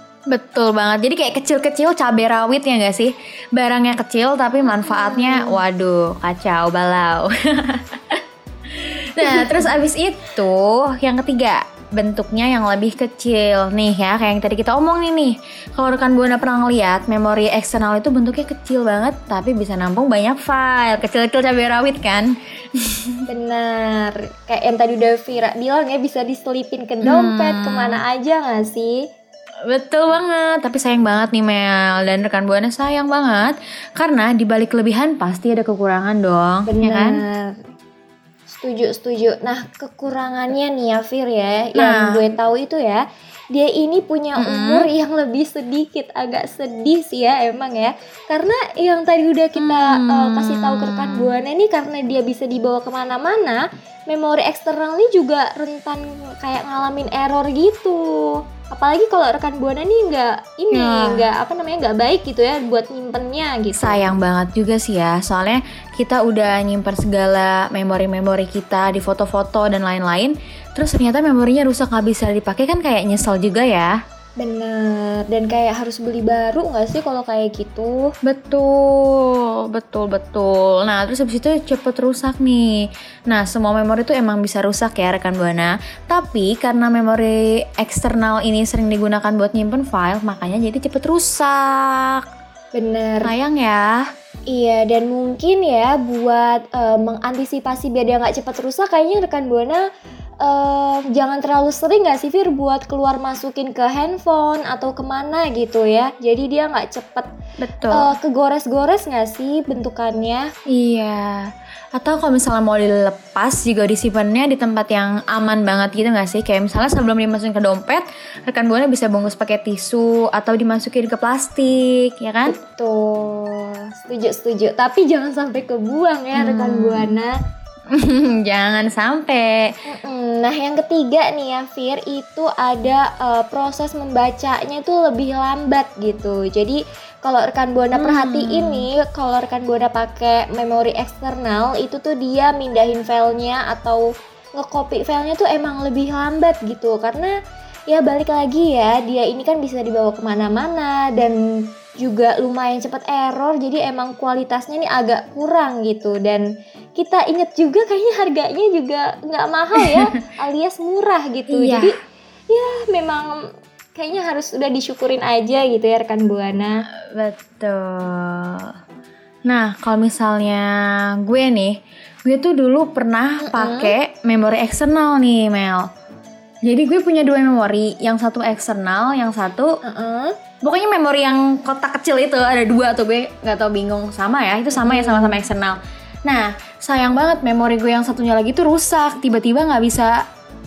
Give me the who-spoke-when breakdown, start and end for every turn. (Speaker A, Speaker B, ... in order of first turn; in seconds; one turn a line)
Speaker A: 0.3-23.2
Speaker B: 4.6-5.6
Speaker B: 9.2-9.7
Speaker B: 23.3-29.0
Speaker A: 27.0-28.0
Speaker A: 29.7-37.2
Speaker B: 36.7-37.6
Speaker B: 38.5-58.1
Speaker A: 41.8-42.2
Speaker A: 44.4-44.9
Speaker A: 49.6-51.3
Speaker B: 58.7-64.1
Speaker A: 60.7-61.2
Speaker A: 63.7-73.9
Speaker B: 74.4-78.1
Speaker A: 78.2-82.7
Speaker A: 83.3-92.2
Speaker B: 92.7-93.3
Speaker A: 93.2-94.0
Speaker B: 94.5-99.8
Speaker B: 100.4-107.3
Speaker A: 107.6-108.1
Speaker B: 107.9-110.5
Speaker A: 110.7-122.6
Speaker B: 122.5-127.3
Speaker A: 126.3-127.1
Speaker A: 127.9-129.7
Speaker B: 129.9-144.0
Speaker A: 137.9-138.9
Speaker B: 144.6-147.3
Speaker B: 147.9-151.4
Speaker B: 152.0-156.4
Speaker B: 157.0-161.9
Speaker A: 159.8-160.1
Speaker A: 161.5-161.9
Speaker B: 162.5-163.3
Speaker B: 163.9-166.8
Speaker A: 167.1-168.7
Speaker A: 169.5-170.7
Speaker A: 171.2-175.9
Speaker B: 173.4-173.9
Speaker A: 176.6-179.7
Speaker B: 179.8-180.3
Speaker A: 180.6-190.2
Speaker B: 184.7-185.4